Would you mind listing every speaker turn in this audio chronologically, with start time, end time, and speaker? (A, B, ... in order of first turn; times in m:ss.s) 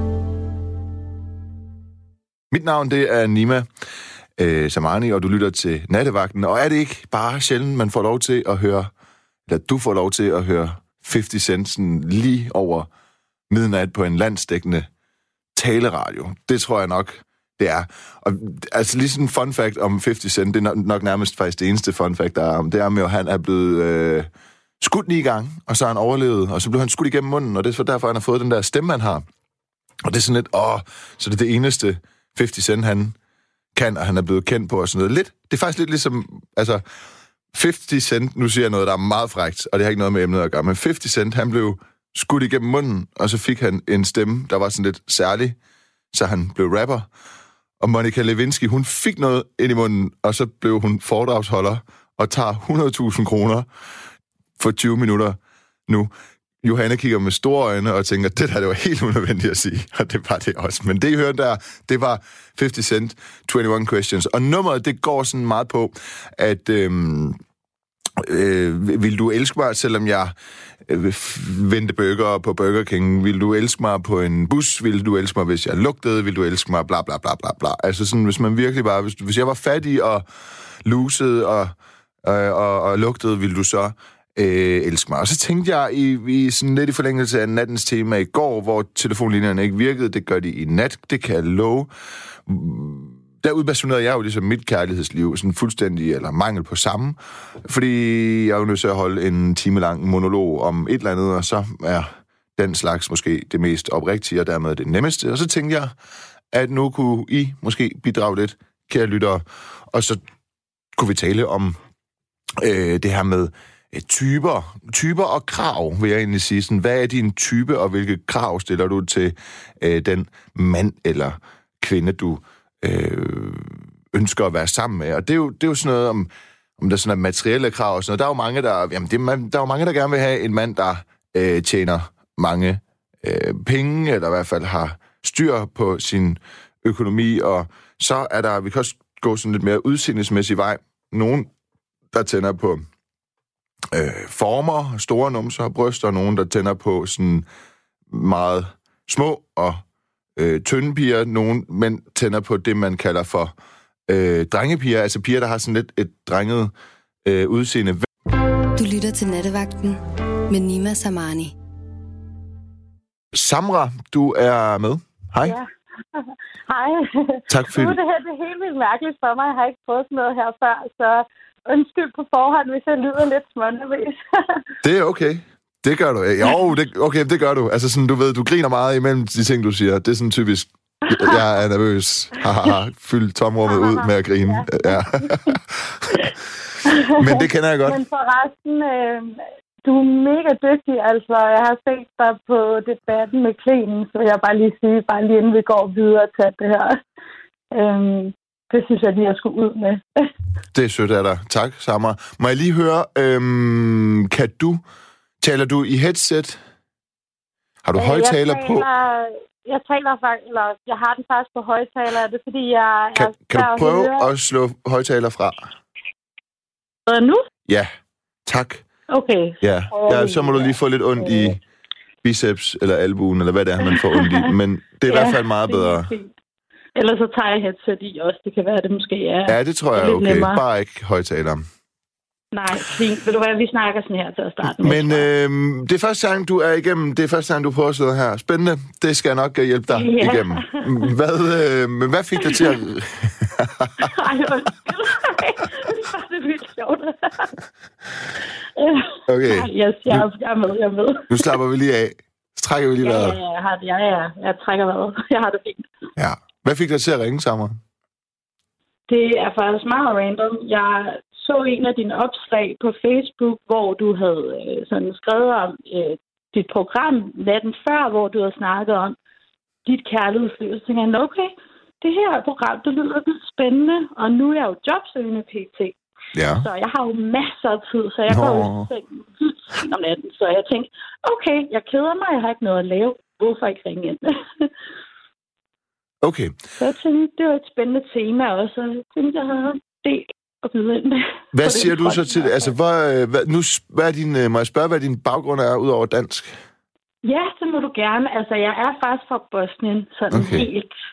0:02.5-0:03.6 A
0:04.4-0:08.9 A
0:09.5-0:12.9 A
0:13.5-0:14.9 A
0:15.6-0:24.3 A
0:24.8-0:29.2 A
0:30.0-0:33.2 A
0:33.7-0:36.8 A
0:37.5-0:45.6 A
0:46.1-0:47.1 A
0:47.8-0:53.7 A
0:54.6-0:56.1 A
0:56.6-1:07.4 A
1:08.2-1:10.3 A
1:10.8-1:20.2 A
1:20.8-1:31.9 A
1:32.4-1:45.9 A
1:46.5-1:50.2 A
1:51.0-1:51.8 A
1:52.6-2:21.5 A
2:22.1-2:22.8 A
2:23.9-2:27.5 A
2:28.1-2:29.8 A
2:30.4-2:33.5 A
2:34.1-2:36.7 A
2:37.2-2:38.1 A
2:38.8-2:41.5 B
2:43.3-2:45.6 A
2:45.4-2:54.7 C
2:47.5-2:48.0 A
2:54.8-3:06.3 A
3:01.1-3:01.4 C
3:03.7-3:05.6 C
3:06.8-3:17.0 C
3:07.0-3:08.0 A
3:17.7-3:20.3 C
3:20.7-3:24.8 A
3:25.4-3:26.6 A
3:27.8-3:28.9 A
3:27.9-3:34.3 C
3:33.2-3:35.7 A
3:37.1-3:37.4 C
3:38.4-3:38.8 A
3:39.1-3:41.6 C
3:39.6-3:41.6 A
3:42.2-3:46.1 A
3:43.9-3:44.5 C
3:45.1-3:46.3 C
3:47.0-3:50.6 C
3:49.5-3:51.6 A
3:52.5-3:55.3 C
3:54.8-4:04.1 A
3:59.9-4:01.1 C
4:04.0-4:07.5 C
4:08.8-4:11.6 C
4:09.3-4:10.3 A
4:11.3-4:13.4 A
4:13.0-4:15.9 C
4:16.2-4:17.8 A
4:19.1-4:29.2 C
4:29.8-4:36.0 C
4:36.3-4:36.7 A
4:36.6-4:44.7 C
4:38.3-4:38.9 A
4:46.2-4:46.6 A
4:46.8-4:52.7 C
4:51.5-4:56.6 A
4:57.2-5:00.9 C
5:00.3-5:00.7 A